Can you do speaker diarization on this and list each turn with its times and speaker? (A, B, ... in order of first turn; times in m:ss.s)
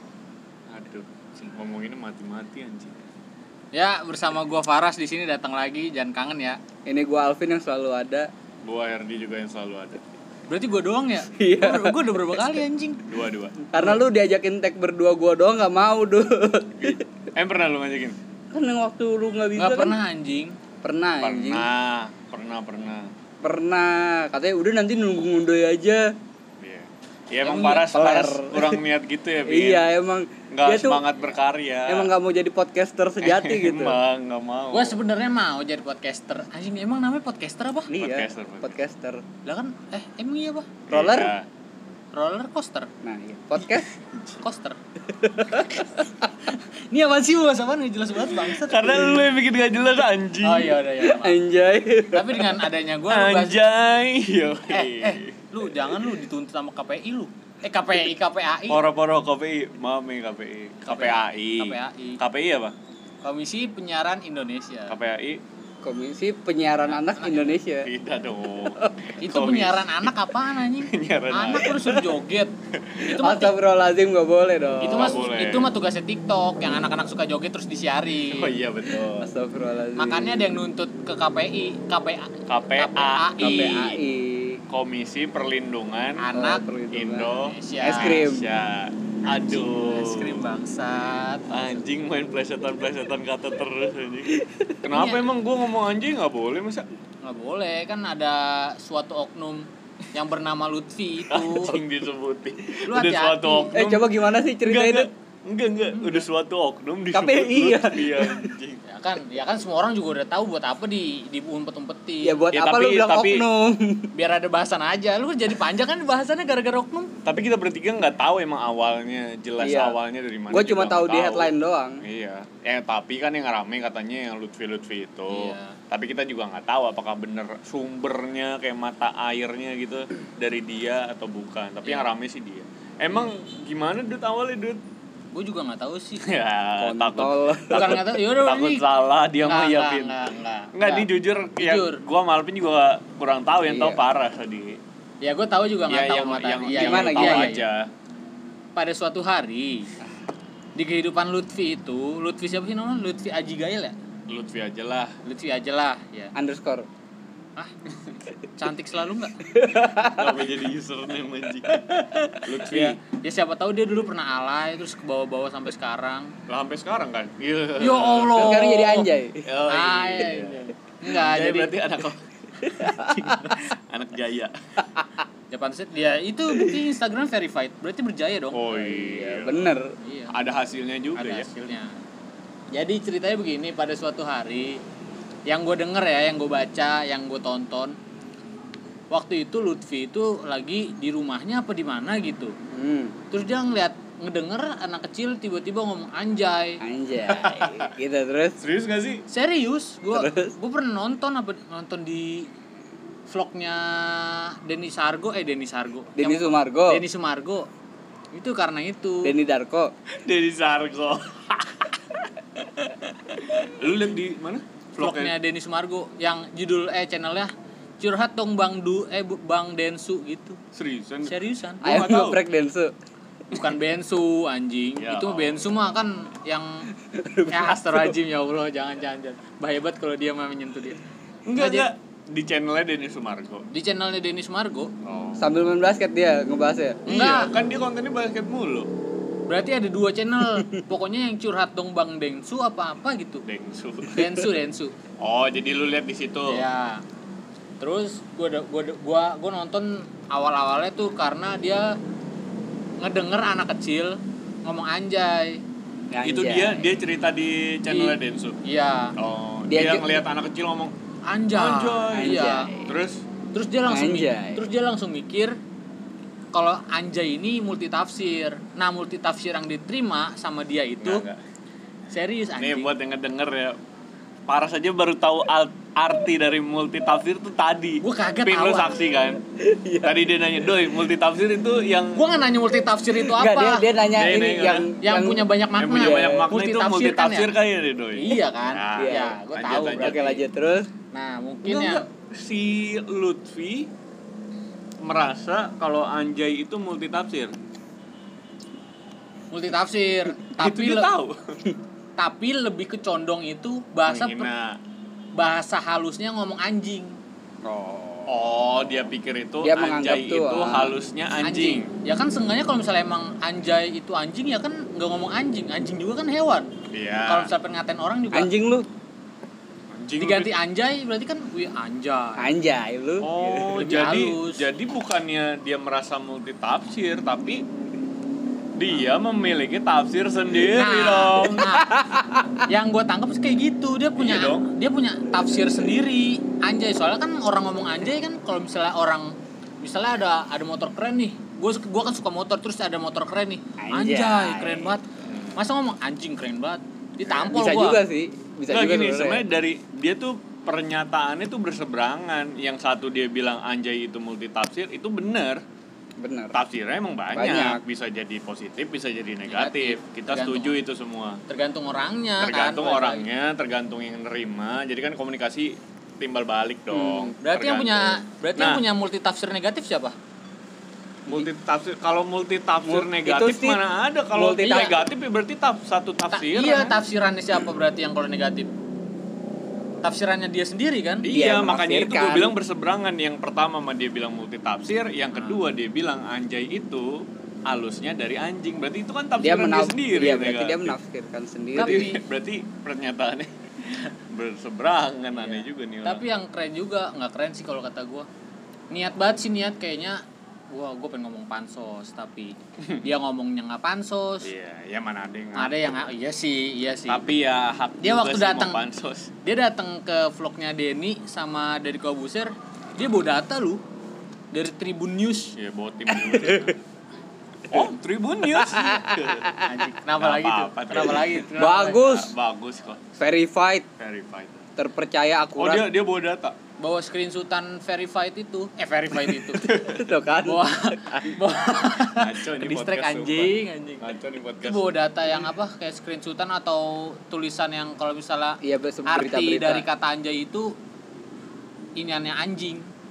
0:00.7-0:03.0 A
0:03.7-0:06.6 B
0:06.8-0:08.3 C
0:08.6-0:10.0 A
0:10.5-0:13.0 B
0:11.3-0:12.4 C
0:13.1-0:13.7 A
0:13.7-0:17.0 C
0:16.9-0:18.2 A
0:18.5-0:20.0 C
0:19.6-0:20.6 B
0:20.8-0:21.7 C
0:21.2-0:23.1 A
0:23.4-0:26.1 C
0:26.6-0:29.8 A
0:27.4-0:28.8 C
0:29.4-0:31.1 C
0:30.5-0:32.1 A
0:31.9-0:34.0 C
0:33.2-0:35.0 A
0:34.7-0:37.9 B
0:37.9-0:39.2 C
0:38.0-0:38.8 A
0:39.4-0:40.7 B
0:40.9-0:41.4 A
0:40.9-0:41.3 C
0:42.1-0:42.9 B
0:43.0-0:43.9 C
0:43.6-0:44.4 A
0:44.4-0:44.8 B
0:45.0-0:46.3 C
0:45.5-0:49.2 B
0:48.4-0:50.8 A
0:50.4-0:51.4 B
0:51.0-0:52.6 C
0:52.1-0:53.6 B
0:53.1-0:55.4 A
0:54.7-0:58.8 B
0:58.7-1:02.7 A
1:00.8-1:02.2 B
1:03.2-1:05.0 B
1:04.9-1:05.4 A
1:05.8-1:07.9 C
1:06.9-1:07.6 B
1:07.8-1:10.1 A
1:09.2-1:13.5 B
1:10.8-1:12.1 A
1:12.7-1:13.1 A
1:13.0-1:15.2 C
1:14.8-1:18.6 B
1:14.9-1:15.7 A
1:18.3-1:19.3 A
1:19.0-1:20.5 C
1:20.0-1:23.9 B
1:22.5-1:24.0 A
1:23.4-1:24.6 C
1:24.7-1:26.3 A
1:26.2-1:26.6 B
1:26.3-1:28.5 C
1:26.9-1:30.4 A
1:27.4-1:28.2 B
1:29.2-1:31.7 B
1:31.5-1:36.9 A
1:34.3-1:34.7 C
1:34.9-1:35.3 B
1:37.2-1:41.8 B
1:41.3-1:44.1 A
1:42.9-1:43.7 B
1:43.7-1:45.1 C
1:44.6-1:48.8 A
1:47.1-1:48.5 C
1:48.8-1:52.4 B
1:52.2-1:54.1 C
1:52.5-1:53.4 A
1:54.1-1:57.1 B
1:57.2-2:01.5 A
1:59.6-2:00.0 C
2:00.5-2:02.0 C
2:02.0-2:14.8 A
2:05.3-2:05.8 B
2:11.8-2:12.1 B
2:15.3-2:16.2 B
2:16.2-2:24.8 A
2:16.8-2:18.0 C
2:17.7-2:18.8 B
2:19.4-2:21.1 B
2:21.6-2:22.0 B
2:23.7-2:24.0 C
2:25.2-2:27.6 B
2:25.9-2:27.9 A
2:26.7-2:27.6 C
2:28.7-2:29.9 B
2:30.8-2:34.0 B
2:34.3-2:35.2 A
2:35.2-2:36.3 B
2:36.3-2:36.9 C
2:38.6-2:39.4 B
2:39.5-2:40.4 C
2:40.1-2:41.8 A
2:42.4-2:43.0 A
2:42.6-2:43.0 C
2:43.1-2:46.3 B
2:46.5-2:48.8 A
2:47.8-2:49.1 B
2:48.3-2:49.5 C
2:49.4-2:54.8 A
2:49.7-2:51.7 B
2:52.8-2:53.6 C
2:55.5-2:58.7 B
2:58.5-2:59.7 A
2:58.8-2:59.9 C
3:00.0-3:00.3 B
3:00.3-3:01.5 A
3:01.2-3:01.9 B
3:02.7-3:04.8 B
3:05.5-3:08.0 B
3:09.1-3:12.6 B
3:12.7-3:13.2 C
3:13.3-3:16.8 B
3:16.8-3:18.6 C
3:17.3-3:17.9 A
3:18.6-3:19.2 A
3:19.3-3:22.5 B
3:20.1-3:20.5 C
3:23.3-3:27.7 B
3:26.2-3:27.0 C
3:28.3-3:29.4 B
3:29.2-3:29.9 C
3:30.2-3:35.3 A
3:35.0-3:40.6 B
3:40.7-3:41.4 A
3:41.2-3:42.4 B
3:41.8-3:42.9 C
3:43.5-3:46.9 B
3:45.0-3:45.8 A
3:47.0-3:48.1 C
3:47.5-3:51.0 B
3:51.4-3:53.7 A
3:51.6-3:51.9 B
3:53.7-3:54.9 B
3:55.0-3:55.5 A
3:55.4-3:57.0 C
3:57.0-3:57.5 B
3:57.1-3:58.9 A
3:59.5-4:03.4 B
4:03.4-4:04.4 A
4:04.1-4:04.9 B
4:05.2-4:06.6 A
4:06.5-4:07.0 B
4:07.8-4:12.0 B
4:13.0-4:15.6 B
4:16.1-4:16.9 C
4:16.2-4:18.6 A
4:17.9-4:19.1 B
4:19.2-4:20.9 A
4:19.7-4:20.2 C
4:21.3-4:22.7 B
4:21.5-4:23.2 A
4:22.1-4:22.9 C
4:23.5-4:25.6 B
4:23.9-4:24.6 C
4:26.5-4:31.2 B
4:31.0-4:31.4 A
4:32.1-4:32.9 B
4:32.6-4:33.8 A
4:34.5-4:39.4 A
4:38.0-4:39.0 B
4:39.6-4:40.3 C
4:40.0-4:42.2 A
4:42.1-4:43.9 B
4:43.1-4:46.5 C
4:44.1-4:44.9 A
4:45.0-4:47.5 B
4:45.8-4:50.3 A
4:48.1-4:50.4 B
4:49.0-4:49.4 C
4:49.9-4:50.9 C
4:51.1-4:52.0 B
4:51.6-4:53.9 A
4:55.0-4:57.5 A
4:59.5-5:01.1 B
5:00.6-5:01.6 A
5:02.2-5:04.5 B
5:04.1-5:04.8 A
5:05.4-5:07.2 B
5:07.6-5:08.5 C
5:08.3-5:11.9 A
5:09.6-5:11.0 C
5:11.4-5:16.7 B
5:16.9-5:17.5 A
5:17.3-5:18.5 B
5:18.3-5:18.9 C
5:19.9-5:20.5 A
5:20.2-5:22.5 B
5:22.4-5:23.8 C
5:23.2-5:27.6 A
5:23.8-5:24.6 B
5:28.7-5:31.8 A
5:30.7-5:31.9 B
5:31.7-5:32.6 C
5:32.6-5:45.0 B
5:34.2-5:34.7 A
5:43.8-5:44.9 C
5:45.2-5:45.6 A
5:45.6-5:47.9 B
5:47.3-5:49.4 C
5:47.4-5:48.0 A
5:48.7-5:55.6 A
5:56.2-5:56.6 C
5:56.5-6:01.4 A
5:57.3-5:57.8 C
5:59.5-6:00.8 B
6:01.5-6:03.2 B
6:02.4-6:08.8 A
6:06.9-6:07.3 C
6:07.4-6:10.1 B
6:11.3-6:17.0 A
6:12.8-6:13.8 C
6:14.3-6:15.0 C
6:16.3-6:18.7 B
6:20.0-6:21.3 B
6:21.2-6:31.0 A
6:21.3-6:22.5 C
6:25.4-6:25.6 B
6:29.4-6:32.1 C
6:31.7-6:32.2 B
6:31.8-6:36.2 A
6:36.0-6:38.3 B
6:38.9-6:44.5 B
6:44.4-6:45.7 A
6:45.5-6:47.2 B
6:47.1-6:49.3 A
6:48.0-6:48.8 B
6:49.4-6:53.8 B
6:54.5-6:55.5 B
6:55.6-6:56.8 A
6:56.1-6:56.7 C
6:57.7-6:59.6 A
6:58.5-6:59.6 C
6:59.6-7:02.1 B
7:00.2-7:03.1 A
7:01.5-7:02.3 C
7:03.2-7:03.8 C
7:04.0-7:04.6 A
7:04.8-7:05.9 C
7:05.6-7:06.6 A
7:06.8-7:09.7 B
7:09.6-7:10.1 A
7:09.6-7:11.2 C
7:10.4-7:20.7 B
7:12.1-7:15.0 A
7:18.6-7:19.8 C
7:22.0-7:22.9 B